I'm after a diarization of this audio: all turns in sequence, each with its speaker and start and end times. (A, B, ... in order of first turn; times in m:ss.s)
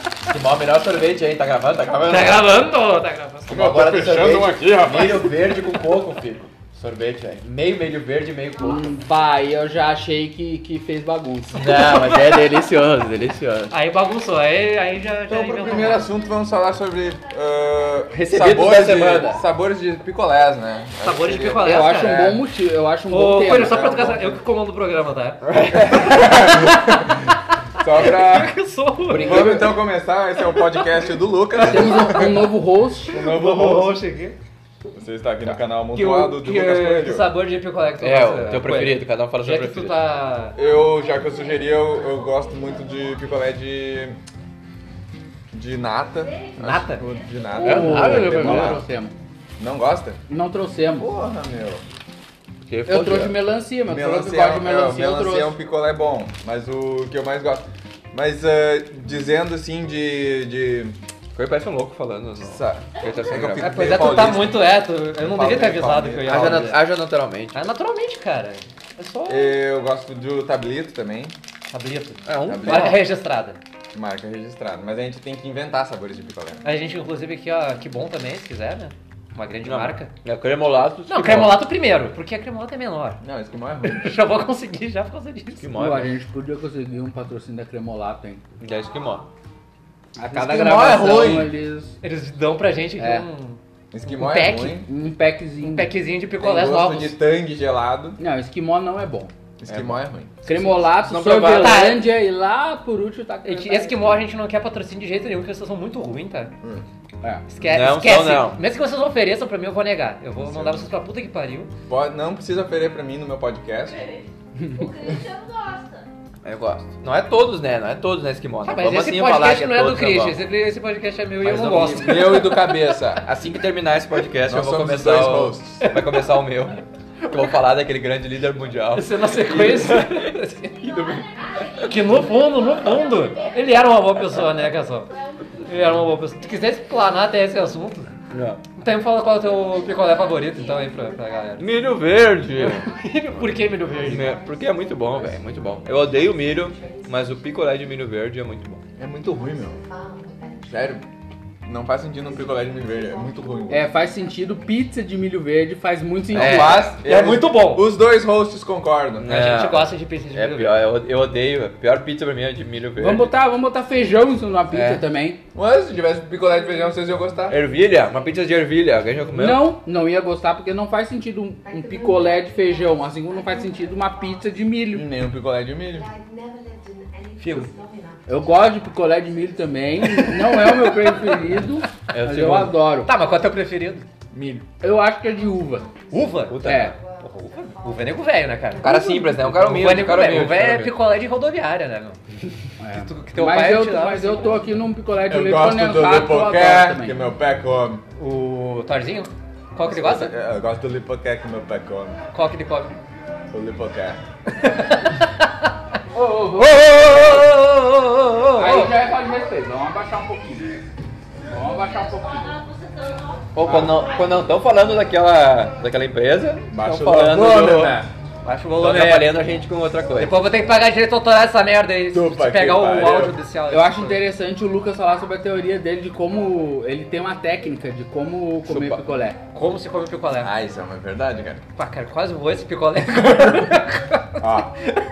0:00.2-0:02.5 A
0:02.0-0:03.6 B
0:03.5-0:05.4 C
0:03.5-0:08.8 A
0:08.6-0:11.9 D
0:11.5-0:13.7 A
0:11.8-0:12.2 B
0:13.7-0:16.1 B
0:15.3-0:22.4 C
0:18.1-0:19.4 A
0:21.0-0:22.3 B
0:21.6-0:24.3 D
0:23.1-0:27.2 B
0:25.4-0:27.3 C
0:25.5-0:26.3 A
0:27.8-0:28.5 C
0:27.9-0:29.5 B
0:29.1-0:29.8 A
0:29.1-0:32.5 C
0:31.6-0:33.2 D
0:33.1-0:34.0 C
0:33.1-0:34.4 B
0:34.9-0:37.3 C
0:35.9-0:40.6 B
0:38.0-0:40.0 A
0:40.6-0:44.2 C
0:45.5-0:48.8 C
0:46.6-0:47.0 B
0:47.5-0:49.1 D
0:47.6-0:48.8 A
0:49.6-0:50.2 C
0:50.3-0:51.1 D
0:51.0-0:51.8 C
0:52.7-0:53.4 A
0:52.8-0:55.5 D
0:53.8-1:01.0 C
1:01.3-1:04.4 A
1:02.4-1:06.7 C
1:03.6-1:06.8 B
1:06.2-1:07.6 A
1:07.5-1:09.3 B
1:09.0-1:09.4 A
1:09.3-1:11.4 C
1:11.7-1:13.6 B
1:12.2-1:13.0 A
1:12.4-1:13.0 C
1:13.9-1:16.6 C
1:16.6-1:20.1 B
1:19.6-1:21.6 A
1:21.1-1:23.2 B
1:23.2-1:24.2 C
1:23.8-1:25.7 B
1:25.6-1:26.1 A
1:25.7-1:28.4 D
1:28.6-1:29.3 A
1:30.2-1:31.9 D
1:30.3-1:31.5 C
1:30.5-1:31.4 A
1:32.0-1:34.8 B
1:33.0-1:33.2 D
1:33.9-1:34.9 C
1:34.8-1:35.9 D
1:35.6-1:37.2 B
1:36.4-1:38.2 C
1:38.2-1:39.3 D
1:39.6-1:40.7 C
1:39.7-1:40.0 A
1:40.4-1:44.2 D
1:40.8-1:42.0 A
1:41.5-1:42.0 B
1:43.4-1:46.5 B
1:47.5-1:51.7 B
1:47.6-1:48.6 A
1:50.4-1:50.9 C
1:51.9-1:54.0 C
1:53.9-1:56.1 E
1:56.4-2:00.4 A
1:58.6-2:02.8 B
2:01.4-2:11.9 A
2:04.5-2:05.9 C
2:08.9-2:10.7 B
2:11.4-2:11.9 E
2:11.8-2:15.1 B
2:12.7-2:14.0 E
2:15.1-2:15.6 E
2:15.6-2:18.1 B
2:18.3-2:18.6 A
2:18.8-2:21.7 B
2:21.6-2:22.8 A
2:22.6-2:24.3 B
2:24.0-2:28.8 A
2:29.0-2:29.8 C
2:30.7-2:31.0 C
2:31.6-2:33.9 C
2:33.7-2:36.9 D
2:36.3-2:37.0 A
2:36.3-2:39.6 C
2:37.0-2:37.9 B
2:39.2-2:43.3 A
2:39.3-2:40.8 B
2:43.0-2:45.4 D
2:44.7-2:45.0 C
2:45.5-2:47.6 C
2:47.5-2:49.7 A
2:49.3-2:55.1 D
2:54.9-2:56.1 C
2:57.4-2:57.7 B
2:58.3-3:03.1 D
3:02.1-3:02.8 A
3:03.0-3:04.0 B
3:04.3-3:04.6 C
3:04.8-3:05.9 D
3:06.1-3:12.2 B
3:06.5-3:06.9 A
3:06.6-3:06.9 D
3:08.8-3:11.0 A
3:12.8-3:17.2 D
3:13.0-3:14.6 B
3:15.2-3:18.0 C
3:18.2-3:20.3 B
3:19.8-3:22.2 C
3:22.3-3:23.0 B
3:23.5-3:24.2 C
3:24.5-3:25.7 B
3:26.1-3:27.5 D
3:26.6-3:29.0 B
3:28.5-3:30.8 D
3:31.5-3:32.6 D
3:32.2-3:34.1 E
3:33.5-3:40.4 A
3:33.6-3:34.1 D
3:36.7-3:38.1 C
3:38.4-3:39.4 B
3:40.2-3:44.2 B
3:42.1-3:43.3 C
3:43.7-3:49.4 D
3:48.7-3:48.9 A
3:49.5-3:50.5 B
3:50.4-3:51.6 C
3:51.8-3:54.7 B
3:54.4-3:54.7 C